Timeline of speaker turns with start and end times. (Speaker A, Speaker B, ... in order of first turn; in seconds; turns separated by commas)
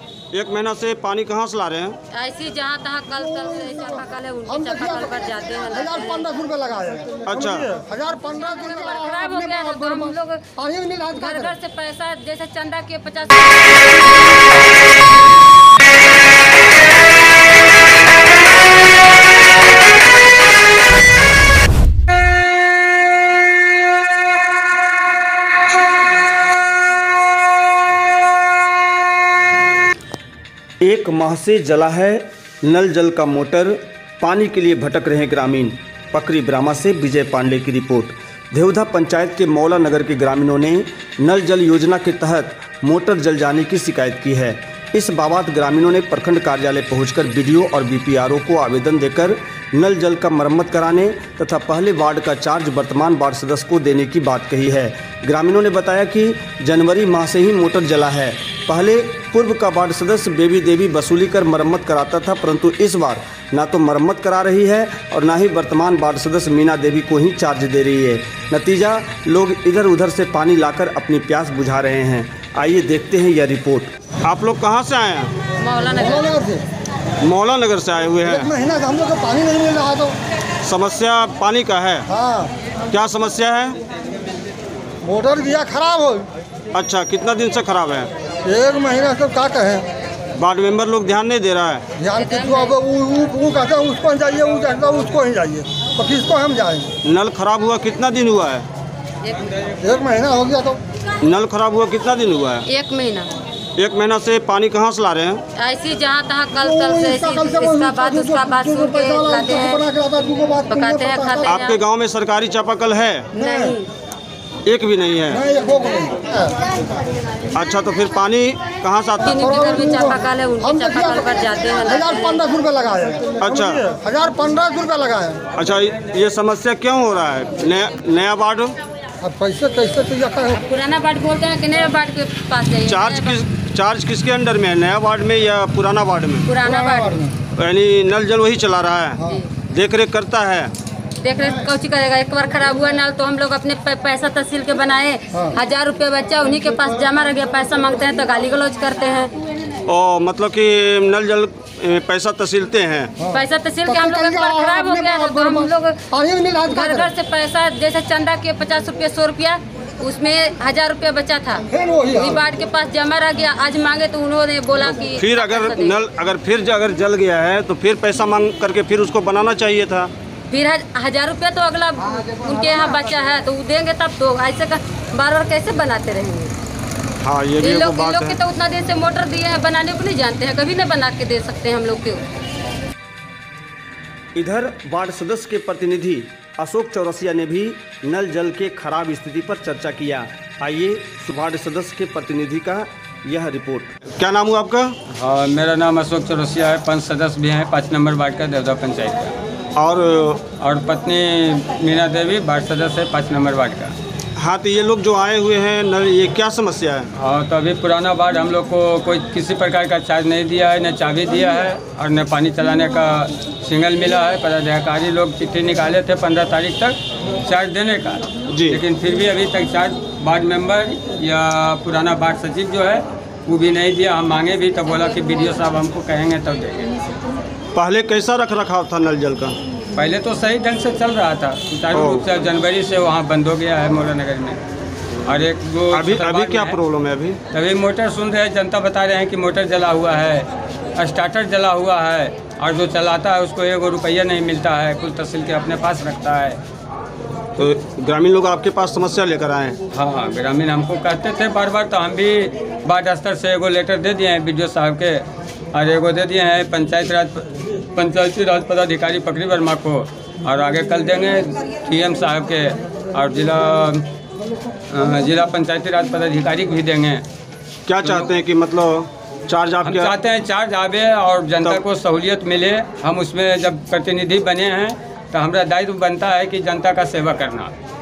Speaker A: 0.3-2.0, Speaker B: 2.1-6.3, Speaker C: 3.2-5.1, Speaker C: 5.7-11.5, Speaker A: 7.2-7.7, Speaker B: 8.3-10.5, Speaker B: 11.1-13.9, Speaker A: 30.8-75.4, Speaker B: 75.6-76.4, Speaker C: 75.9-76.6, Speaker A: 77.2-78.5, Speaker C: 78.3-80.2, Speaker A: 80.6-82.1, Speaker C: 82.1-82.5, Speaker A: 82.9-83.8, Speaker C: 85.0-86.3, Speaker A: 86.7-88.1, Speaker C: 88.4-89.9, Speaker A: 90.4-91.9, Speaker C: 92.0-96.9, Speaker B: 92.2-92.8, Speaker A: 97.0-98.7, Speaker C: 99.8-100.8, Speaker A: 101.2-102.7, Speaker B: 102.7-103.3, Speaker A: 103.8-105.4, Speaker B: 105.5-109.8, Speaker C: 106.6-111.6, Speaker B: 110.7-111.8, Speaker A: 111.5-113.3, Speaker C: 113.3-113.8, Speaker B: 113.4-113.9, Speaker A: 114.7-115.4, Speaker C: 115.3-116.5, Speaker A: 117.5-119.8, Speaker B: 119.3-122.4, Speaker C: 119.3-125.4, Speaker A: 123.4-123.8, Speaker A: 125.5-128.8, Speaker C: 129.2-130.6, Speaker B: 130.6-133.4, Speaker A: 132.8-136.5, Speaker B: 136.5-137.2, Speaker C: 136.6-137.3, Speaker A: 137.5-140.7, Speaker B: 141.2-149.3, Speaker A: 149.8-153.2, Speaker C: 153.2-157.1, Speaker B: 153.3-156.1, Speaker B: 156.7-166.0, Speaker C: 161.7-162.5, Speaker A: 165.1-170.1, Speaker B: 170.5-176.5, Speaker A: 177.2-178.4, Speaker B: 177.6-182.3, Speaker A: 184.3-194.9, Speaker D: 195.1-199.3, Speaker A: 199.8-200.4, Speaker D: 200.6-203.9, Speaker A: 204.3-207.1, Speaker D: 207.2-226.9, Speaker A: 218.5-218.8, Speaker A: 227.7-229.6, Speaker D: 229.9-234.6, Speaker A: 231.9-232.3, Speaker D: 235.2-236.8, Speaker A: 235.9-237.4, Speaker D: 237.5-246.6, Speaker A: 247.6-249.8, Speaker D: 249.9-264.1, Speaker D: 264.9-267.2, Speaker A: 267.9-270.1, Speaker D: 268.0-268.3, Speaker D: 269.8-277.7